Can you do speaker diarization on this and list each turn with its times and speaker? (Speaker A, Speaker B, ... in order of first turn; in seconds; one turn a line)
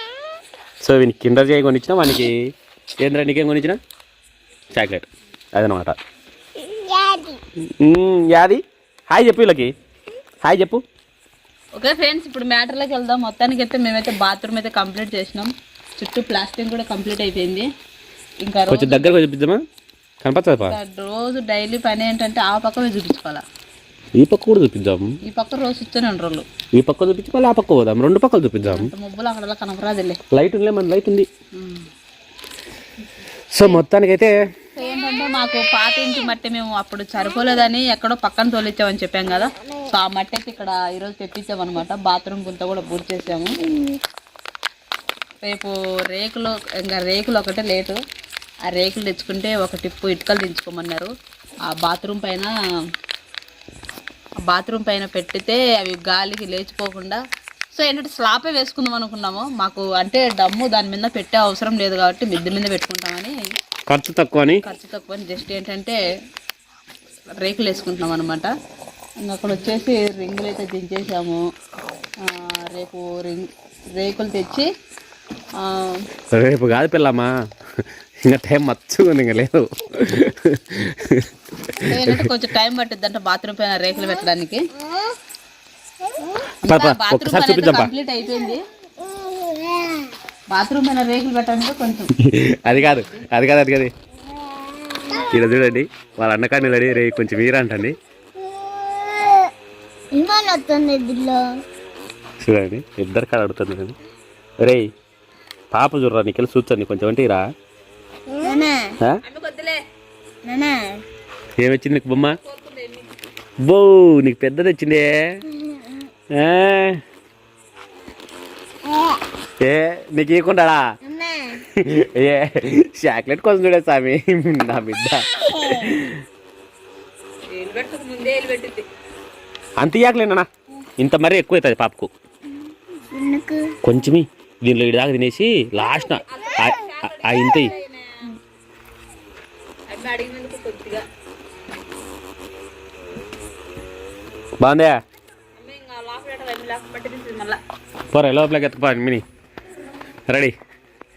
Speaker A: 0.8-2.5
Speaker A: 3.0-3.8
Speaker A: 4.7-6.0
Speaker B: 6.7-7.4
Speaker A: 7.8-9.7
Speaker A: 10.4-10.8
Speaker C: 11.8-17.7
Speaker C: 18.4-19.1
Speaker A: 18.7-19.6
Speaker A: 20.2-20.8
Speaker C: 20.6-23.4
Speaker A: 24.2-25.1
Speaker C: 25.2-26.4
Speaker A: 26.8-28.9
Speaker C: 28.6-30.2
Speaker A: 30.3-31.3
Speaker C: 31.6-31.9
Speaker A: 33.5-34.4
Speaker C: 34.8-43.7
Speaker C: 45.4-48.0
Speaker C: 48.6-51.1
Speaker C: 51.7-52.5
Speaker C: 54.5-57.2
Speaker C: 57.7-63.3
Speaker A: 63.9-64.6
Speaker C: 64.6-66.0
Speaker C: 67.4-68.5
Speaker C: 69.2-71.4
Speaker C: 72.2-74.7
Speaker C: 75.6-76.0
Speaker A: 76.3-77.3
Speaker A: 78.2-82.3
Speaker C: 81.8-84.6
Speaker C: 86.6-88.6
Speaker A: 86.7-87.9
Speaker B: 89.3-90.0
Speaker C: 90.5-92.1
Speaker A: 92.2-93.9
Speaker C: 92.7-93.3
Speaker B: 95.0-95.2
Speaker A: 95.2-98.0
Speaker B: 98.8-99.5
Speaker B: 100.1-101.6
Speaker A: 102.4-103.9
Speaker A: 104.6-104.9
Speaker A: 105.7-107.5
Speaker B: 108.3-109.0
Speaker C: 109.2-109.8
Speaker B: 110.4-111.0
Speaker A: 111.6-112.4
Speaker C: 112.4-113.1
Speaker A: 113.7-115.4
Speaker A: 116.3-117.0
Speaker A: 119.6-120.8
Speaker B: 121.1-121.6
Speaker A: 121.8-126.2
Speaker C: 125.5-125.9
Speaker C: 127.5-128.8
Speaker A: 129.8-130.5
Speaker A: 131.0-132.1
Speaker B: 133.1-133.8
Speaker A: 133.8-137.7
Speaker C: 135.9-138.3
Speaker C: 139.9-141.0
Speaker A: 144.6-145.0
Speaker C: 145.6-147.6
Speaker A: 148.1-149.2